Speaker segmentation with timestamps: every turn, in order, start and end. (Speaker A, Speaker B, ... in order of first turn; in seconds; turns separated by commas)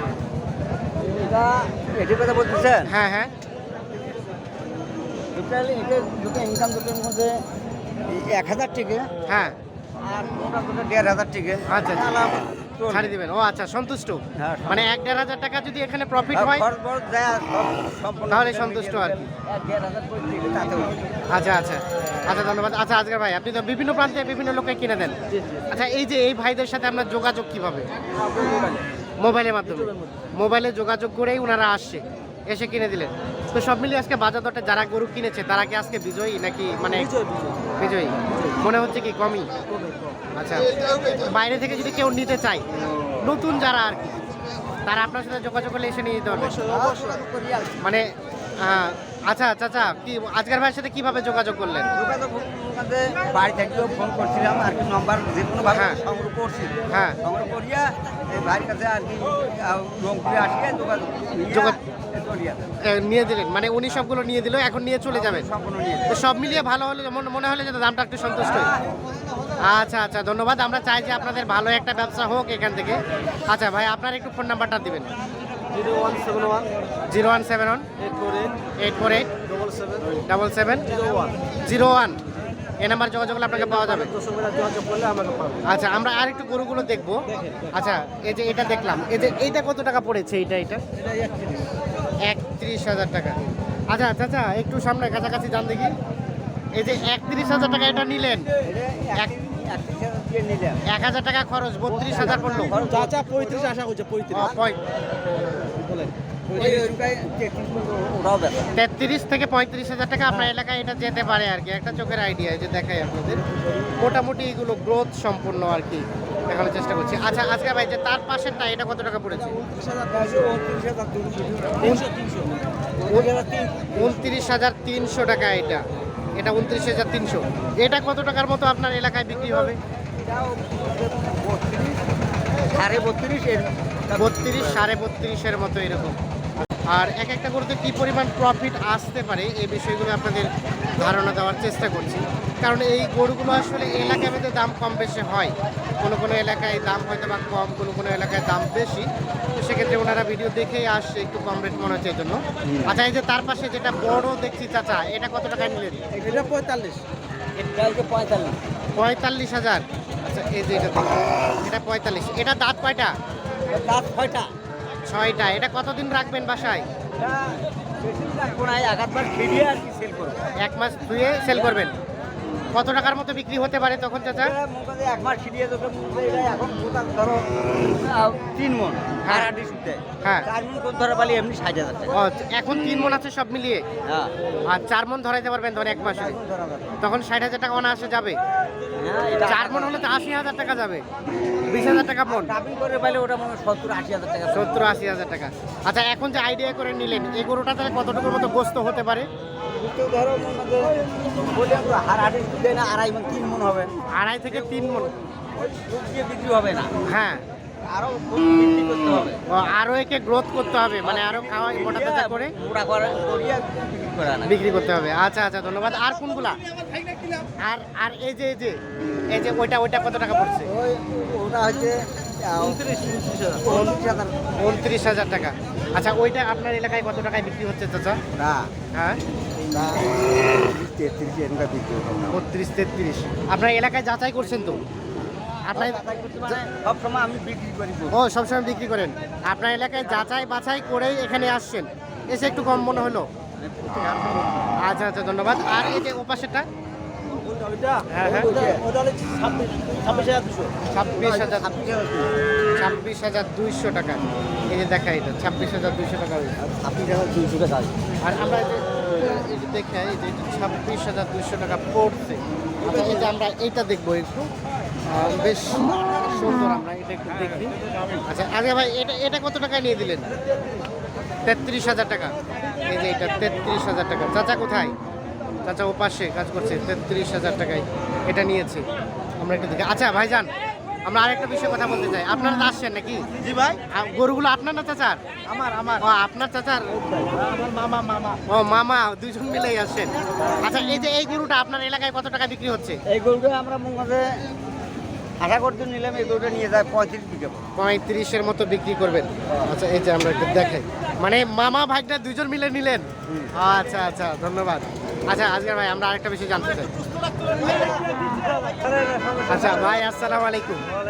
Speaker A: 1.0-2.9, Speaker B: 2.9-3.3, Speaker A: 5.3-7.4, Speaker A: 8.1-9.1, Speaker B: 9.3-9.5, Speaker A: 10.0-13.1, Speaker B: 11.7-12.1, Speaker B: 12.9-16.6, Speaker A: 14.3-14.9, Speaker A: 16.3-21.0, Speaker B: 18.3-19.2, Speaker B: 21.3-25.2, Speaker C: 25.3-25.7, Speaker B: 25.7-27.9, Speaker C: 28.1-28.8, Speaker B: 29.2-37.1, Speaker C: 29.6-30.2, Speaker C: 36.8-38.6, Speaker B: 37.8-39.5, Speaker C: 39.7-40.2, Speaker B: 40.3-42.6, Speaker B: 43.2-44.2, Speaker B: 44.9-46.6, Speaker C: 46.2-47.2, Speaker A: 46.6-47.8, Speaker B: 47.8-51.9, Speaker A: 51.9-62.6, Speaker B: 55.7-56.0, Speaker B: 56.9-57.2, Speaker B: 61.5-61.8, Speaker B: 62.9-65.5, Speaker A: 65.1-66.2, Speaker B: 66.1-68.7, Speaker A: 68.4-68.9, Speaker B: 69.6-75.1, Speaker C: 75.7-76.7, Speaker B: 77.1-77.9, Speaker C: 78.0-78.6, Speaker B: 78.8-79.3, Speaker C: 79.4-80.2, Speaker B: 80.2-80.9, Speaker C: 80.8-81.3, Speaker B: 81.6-82.2, Speaker B: 82.8-84.1, Speaker C: 83.5-85.7, Speaker B: 85.6-90.8, Speaker C: 87.3-87.6, Speaker B: 92.2-95.9, Speaker B: 96.7-98.5, Speaker A: 98.6-100.8, Speaker B: 100.9-102.7, Speaker C: 101.9-104.5, Speaker A: 102.1-103.7, Speaker B: 104.3-104.8, Speaker C: 105.7-107.0, Speaker A: 106.5-108.7, Speaker B: 108.7-113.4, Speaker B: 114.0-119.6, Speaker C: 119.3-120.6, Speaker A: 120.1-121.9, Speaker C: 121.8-122.5, Speaker A: 123.0-124.3, Speaker B: 124.0-125.8, Speaker B: 126.4-129.8, Speaker A: 129.6-132.0, Speaker A: 132.6-134.8, Speaker B: 134.2-136.2, Speaker B: 136.9-156.0, Speaker A: 152.7-152.9, Speaker A: 156.1-156.5, Speaker C: 156.2-157.0, Speaker A: 157.6-158.6, Speaker B: 158.9-163.1, Speaker A: 163.7-164.5, Speaker B: 165.1-166.8, Speaker A: 167.2-170.5, Speaker B: 170.6-171.9, Speaker B: 172.7-174.5, Speaker A: 174.4-182.2, Speaker B: 179.2-179.5, Speaker B: 182.1-183.8, Speaker A: 184.1-184.3, Speaker B: 184.7-186.4, Speaker A: 186.0-187.0, Speaker B: 187.0-188.4, Speaker A: 188.9-190.0, Speaker B: 189.4-191.0, Speaker B: 191.7-192.5, Speaker A: 192.2-194.9, Speaker B: 194.5-199.3, Speaker A: 199.7-203.9, Speaker B: 204.1-205.1, Speaker A: 205.6-207.0, Speaker B: 207.0-207.4, Speaker A: 207.8-209.4, Speaker B: 209.5-212.5, Speaker A: 211.0-214.6, Speaker B: 214.4-216.6, Speaker B: 217.6-218.8, Speaker B: 219.3-220.7, Speaker A: 220.6-222.8, Speaker C: 222.6-223.7, Speaker A: 223.6-224.6, Speaker B: 224.6-228.2, Speaker A: 228.3-228.7, Speaker B: 228.9-229.2, Speaker A: 229.7-232.3, Speaker B: 232.3-234.8, Speaker B: 235.7-236.6, Speaker A: 235.7-238.1, Speaker B: 238.1-243.3, Speaker A: 243.6-244.7, Speaker B: 244.8-246.7, Speaker C: 247.3-250.7, Speaker B: 248.1-248.5, Speaker A: 248.2-248.8, Speaker B: 250.9-251.7, Speaker A: 251.2-252.3, Speaker B: 252.8-256.6, Speaker A: 256.6-257.9, Speaker B: 258.2-264.5, Speaker A: 262.8-263.3, Speaker B: 265.1-270.3, Speaker B: 271.4-272.3, Speaker B: 272.8-274.9, Speaker B: 275.6-278.9, Speaker B: 279.4-280.5, Speaker B: 281.1-283.3, Speaker C: 283.4-283.8, Speaker B: 283.9-285.2, Speaker C: 285.4-286.0, Speaker B: 286.0-286.9, Speaker C: 287.2-288.4, Speaker B: 288.5-293.0, Speaker A: 290.4-290.6, Speaker A: 293.1-294.4, Speaker A: 295.4-297.6, Speaker B: 297.8-306.9, Speaker C: 307.4-309.9, Speaker A: 307.6-308.2, Speaker B: 309.5-310.9